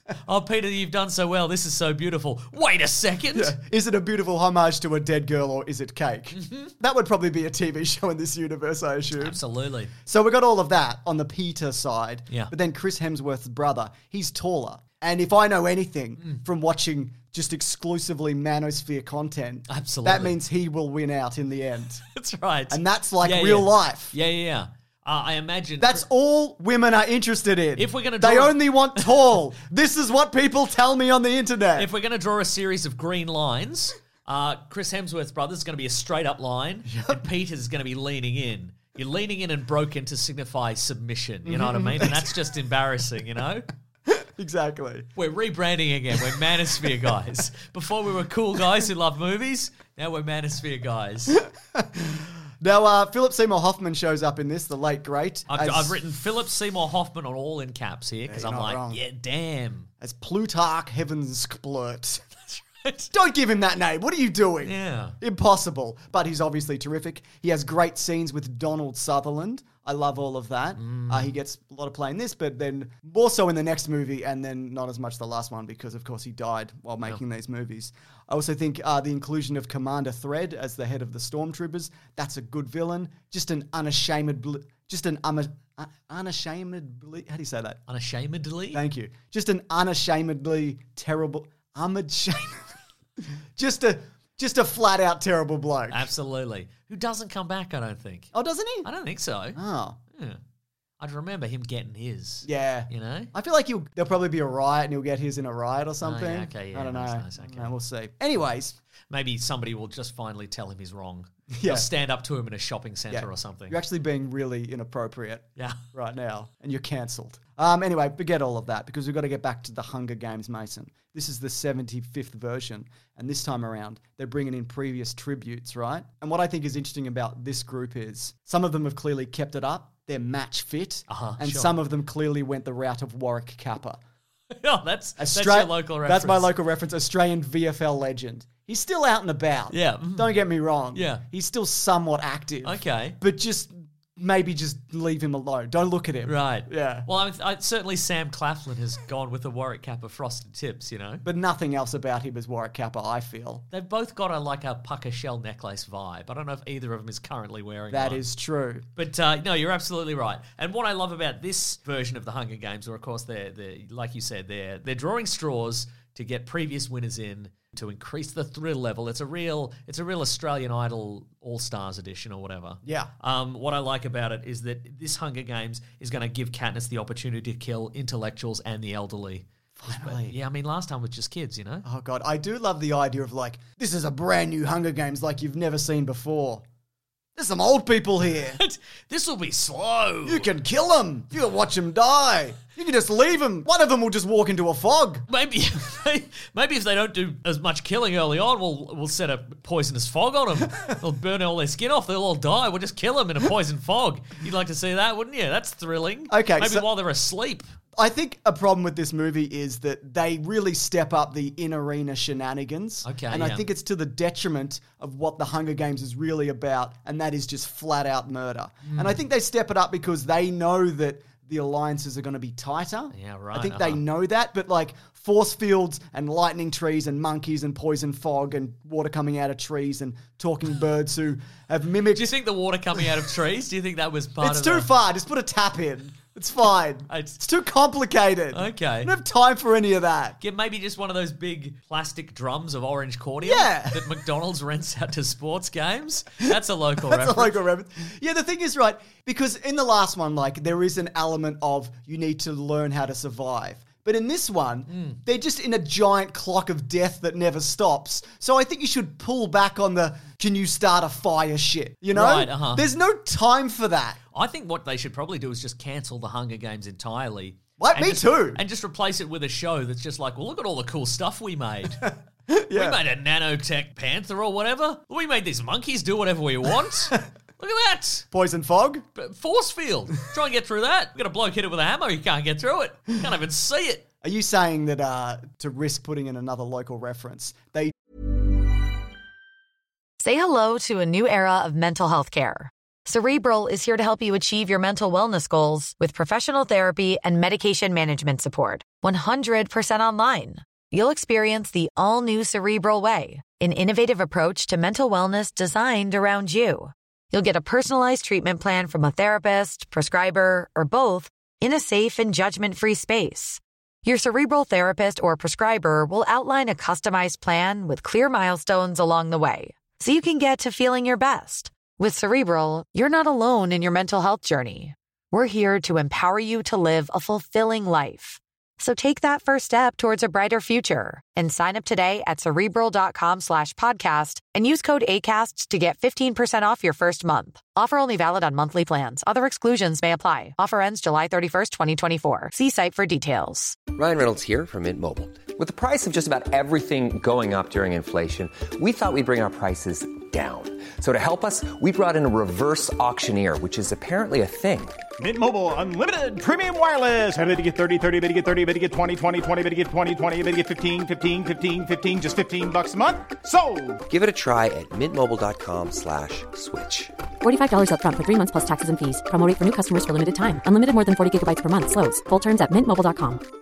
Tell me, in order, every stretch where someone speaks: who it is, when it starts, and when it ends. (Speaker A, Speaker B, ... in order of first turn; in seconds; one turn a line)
Speaker A: 0.2-3.6
Speaker B: 3.3-9.4
Speaker A: 6.4-6.7
Speaker A: 9.2-9.9
Speaker B: 10.1-22.0
Speaker A: 19.7-20.4
Speaker A: 22.1-26.1
Speaker B: 22.7-24.1
Speaker B: 25.8-31.9
Speaker A: 27.8-29.2
Speaker A: 31.8-43.7
Speaker B: 36.9-37.2
Speaker B: 41.5-42.4
Speaker B: 44.1-45.1
Speaker A: 45.2-51.4
Speaker B: 46.4-47.1
Speaker B: 51.3-56.0
Speaker A: 55.5-59.9
Speaker B: 58.3-59.0
Speaker B: 60.0-62.3
Speaker A: 62.5-63.1
Speaker B: 63.1-87.8
Speaker A: 64.6-65.2
Speaker A: 70.8-71.3
Speaker A: 87.9-88.8
Speaker B: 88.7-92.7
Speaker B: 93.6-96.1
Speaker A: 95.9-98.3
Speaker B: 98.3-98.9
Speaker A: 98.8-99.6
Speaker B: 99.5-100.0
Speaker A: 100.2-100.4
Speaker A: 101.0-103.3
Speaker B: 102.4-108.8
Speaker A: 106.0-107.7
Speaker A: 109.1-113.8
Speaker B: 111.5-111.9
Speaker B: 113.1-134.0
Speaker A: 131.1-131.7
Speaker A: 134.5-136.5
Speaker B: 135.2-147.1
Speaker A: 139.7-140.4
Speaker A: 140.9-141.2
Speaker A: 142.6-143.2
Speaker A: 146.2-151.2
Speaker B: 151.2-153.7
Speaker A: 153.7-158.2
Speaker B: 157.9-158.9
Speaker A: 159.0-181.8
Speaker B: 172.8-173.1
Speaker B: 179.8-180.4
Speaker B: 181.8-186.6
Speaker B: 187.4-188.6
Speaker A: 188.3-190.5
Speaker B: 190.2-195.3
Speaker A: 195.3-207.7
Speaker B: 206.3-206.9
Speaker B: 208.0-232.3
Speaker A: 213.1-213.7
Speaker A: 218.8-219.2
Speaker A: 223.1-224.0
Speaker A: 232.1-234.9
Speaker B: 234.4-240.4
Speaker A: 237.1-237.4
Speaker A: 238.5-239.1
Speaker A: 240.4-247.6
Speaker B: 243.4-244.1
Speaker B: 247.0-264.2
Speaker A: 254.9-255.2
Speaker A: 262.1-262.9
Speaker A: 264.3-272.1
Speaker B: 267.8-268.6
Speaker B: 272.5-273.0
Speaker A: 272.7-278.3
Speaker B: 278.3-279.1
Speaker A: 279.2-284.1
Speaker B: 284.2-287.9
Speaker C: 290.2-343.8
Speaker D: 343.9-355.0
Speaker E: 355.2-364.0
Speaker D: 364.1-367.1
Speaker F: 367.4-373.4